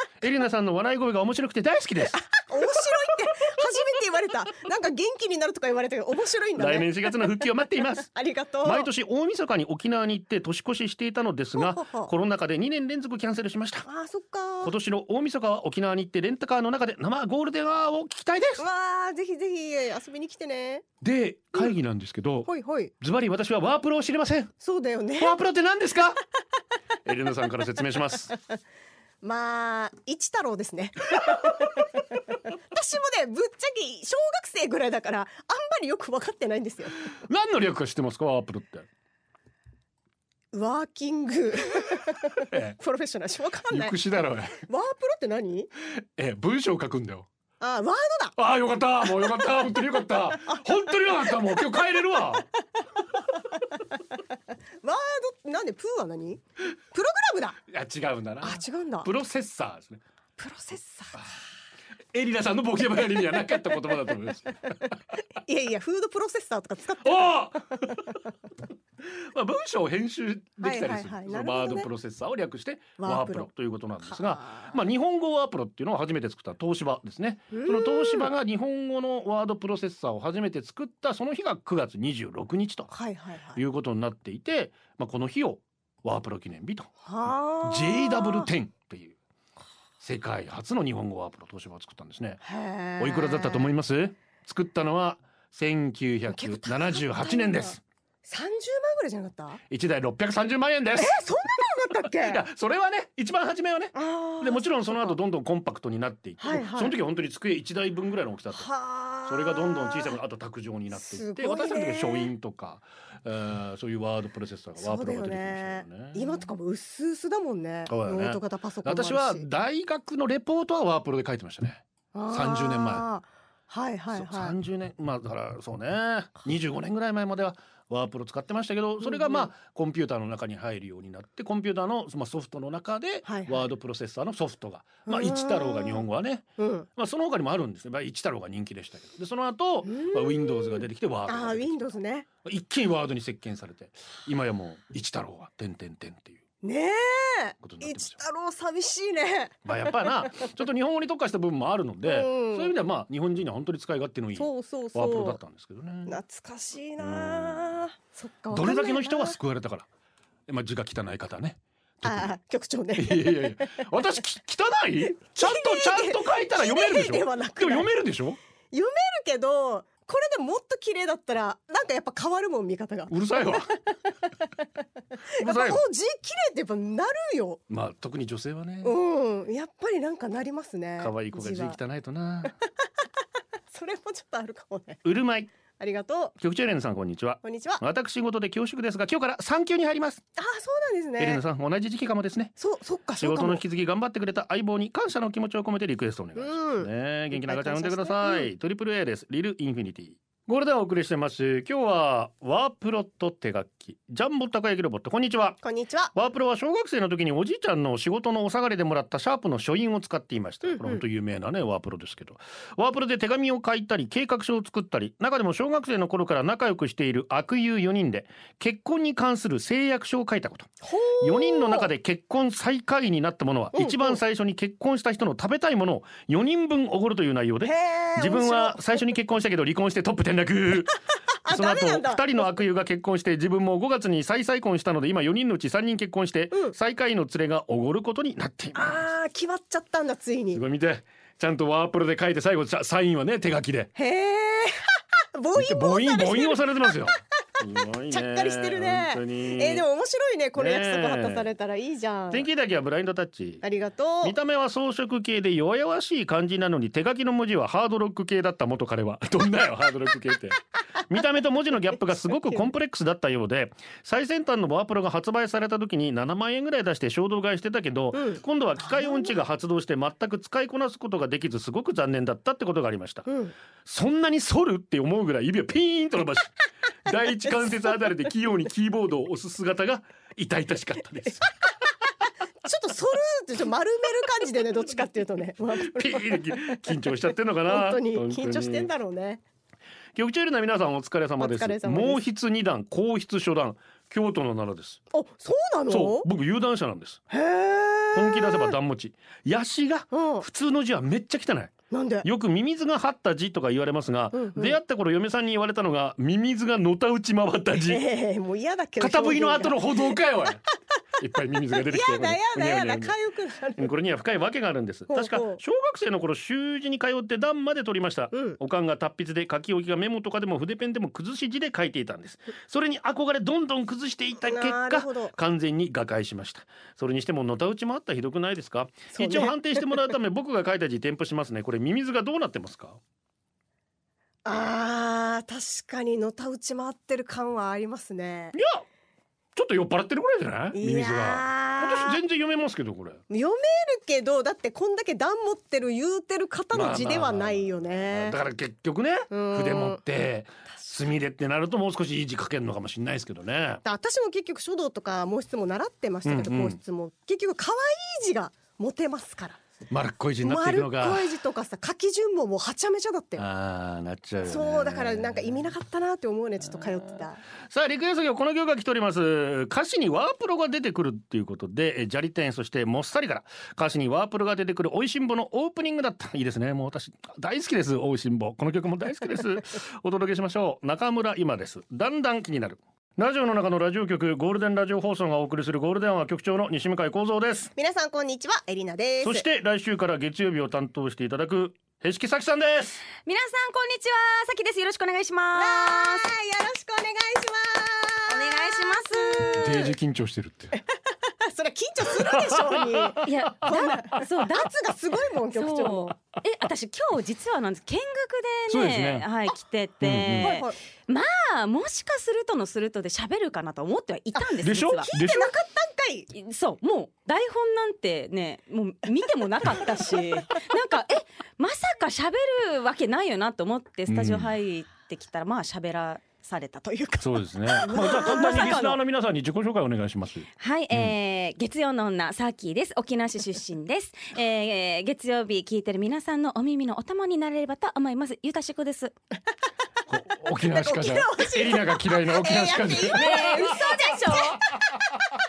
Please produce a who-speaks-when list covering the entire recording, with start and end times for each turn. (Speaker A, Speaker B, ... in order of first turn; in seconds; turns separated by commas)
Speaker A: 0.2-2.2, Speaker B: 2.1-7.3, Speaker A: 6.6-8.1, Speaker B: 8.1-8.9, Speaker A: 8.6-13.9, Speaker B: 11.6-12.1, Speaker B: 13.9-14.7, Speaker A: 14.6-18.6, Speaker B: 18.6-20.9, Speaker A: 21.0-22.5, Speaker B: 22.5-22.9, Speaker A: 23.0-24.5, Speaker B: 24.6-25.4, Speaker A: 25.2-26.2, Speaker A: 27.1-28.3, Speaker B: 29.2-37.1, Speaker A: 37.1-38.9, Speaker B: 40.5-44.0, Speaker A: 42.4-42.8, Speaker A: 43.7-44.6, Speaker B: 44.5-45.7, Speaker A: 46.2-47.3, Speaker B: 47.6-48.4, Speaker A: 48.4-52.5, Speaker B: 54.8-56.4, Speaker B: 56.9-57.6, Speaker A: 57.7-60.0, Speaker B: 58.4-59.1, Speaker B: 60.4-61.3, Speaker A: 62.1-65.0, Speaker B: 65.4-68.0, Speaker A: 67.0-68.2, Speaker A: 69.0-82.9, Speaker B: 70.6-71.9, Speaker B: 73.0-73.5, Speaker B: 74.0-74.8, Speaker B: 77.5-78.3, Speaker B: 82.9-83.6, Speaker A: 83.5-86.9, Speaker B: 87.0-88.5, Speaker A: 87.6-89.2, Speaker A: 90.0-92.4, Speaker B: 92.4-93.7, Speaker A: 93.0-97.8, Speaker B: 96.3-99.6, Speaker A: 99.7-101.2, Speaker B: 101.0-102.5, Speaker A: 102.1-108.7, Speaker B: 103.9-105.2, Speaker B: 106.4-107.0, Speaker B: 108.5-110.2, Speaker A: 109.3-116.5, Speaker B: 110.9-112.3, Speaker B: 114.8-119.5, Speaker A: 117.9-123.1, Speaker B: 122.1-124.6, Speaker A: 124.1-141.9, Speaker B: 129.0-129.5, Speaker B: 133.2-133.7, Speaker B: 135.1-136.1, Speaker B: 136.6-136.9, Speaker B: 139.8-142.3, Speaker A: 142.4-146.4, Speaker B: 146.6-149.6, Speaker A: 147.6-148.2, Speaker A: 149.7-156.2, Speaker B: 152.0-152.8, Speaker B: 154.4-155.4, Speaker B: 156.1-159.4, Speaker A: 157.0-157.8, Speaker A: 158.5-159.9, Speaker A: 160.5-162.3, Speaker B: 162.0-163.8, Speaker A: 163.0-168.4, Speaker B: 165.3-167.9, Speaker B: 168.7-174.3, Speaker A: 173.1-173.7, Speaker B: 175.3-177.6, Speaker A: 175.4-175.8, Speaker A: 177.7-179.0, Speaker B: 178.8-181.8, Speaker A: 181.0-182.6, Speaker B: 183.7-185.0, Speaker A: 185.0-185.5, Speaker B: 185.8-186.3, Speaker A: 186.4-190.2, Speaker B: 187.4-187.8, Speaker B: 190.4-191.4, Speaker A: 191.2-192.6, Speaker B: 192.6-193.6, Speaker A: 193.2-205.6, Speaker B: 196.4-198.5, Speaker B: 205.6-206.1, Speaker A: 206.1-239.1, Speaker B: 210.6-211.0, Speaker B: 220.8-221.9, Speaker B: 223.7-224.2, Speaker B: 227.6-229.1, Speaker B: 231.4-232.6, Speaker B: 238.8-240.6, Speaker A: 240.5-243.9, Speaker B: 244.0-246.9, Speaker A: 245.6-249.8, Speaker B: 248.1-252.5, Speaker A: 250.6-251.5, Speaker A: 252.3-253.6, Speaker B: 253.6-254.4, Speaker A: 254.2-273.3, Speaker B: 262.3-262.6, Speaker B: 268.1-269.4, Speaker B: 273.3-273.5, Speaker A: 273.9-281.5, Speaker B: 277.6-277.9, Speaker B: 282.6-286.9, Speaker A: 285.7-288.9, Speaker B: 287.7-289.4, Speaker A: 290.1-295.0, Speaker B: 291.4-292.2, Speaker B: 295.1-296.3, Speaker A: 295.9-297.2, Speaker B: 297.3-298.8, Speaker A: 298.1-308.0, Speaker B: 300.1-300.5, Speaker B: 301.9-302.3, Speaker B: 304.3-304.8, Speaker B: 307.9-310.2, Speaker A: 309.0-310.6, Speaker A: 311.2-313.2, Speaker B: 311.7-313.9, Speaker A: 313.8-333.0, Speaker B: 315.1-315.6, Speaker B: 318.3-318.6, Speaker B: 324.4-325.4, Speaker B: 329.1-329.6, Speaker B: 334.4-338.6, Speaker A: 338.5-338.8, Speaker A: 339.6-343.2, Speaker B: 340.7-342.2, Speaker B: 343.3-348.4, Speaker A: 346.7-353.8, Speaker B: 349.3-350.0, Speaker B: 353.8-359.6, Speaker A: 356.2-356.8, Speaker A: 359.9-361.3, Speaker B: 360.4-363.5, Speaker A: 363.4-365.7, Speaker B: 364.4-367.4, Speaker A: 367.7-387.7, Speaker B: 387.8-389.4, Speaker A: 389.2-393.0, Speaker C: 393.2-396.3, Speaker B: 395.6-399.9, Speaker C: 398.3-399.7, Speaker A: 399.6-400.8, Speaker B: 400.7-406.2, Speaker A: 402.1-404.3, Speaker C: 403.2-404.7, Speaker C: 405.5-415.1, Speaker A: 408.7-409.3, Speaker A: 410.0-410.6, Speaker B: 410.4-410.8, Speaker B: 414.4-416.3, Speaker A: 414.6-415.5, Speaker C: 416.3-427.3, Speaker A: 424.1-424.5, Speaker A: 427.2-431.1, Speaker B: 427.7-428.8, Speaker C: 427.8-429.0, Speaker C: 430.6-439.1, Speaker A: 440.1-443.9, Speaker B: 440.6-444.6, Speaker C: 443.1-444.6, Speaker A: 444.5-444.8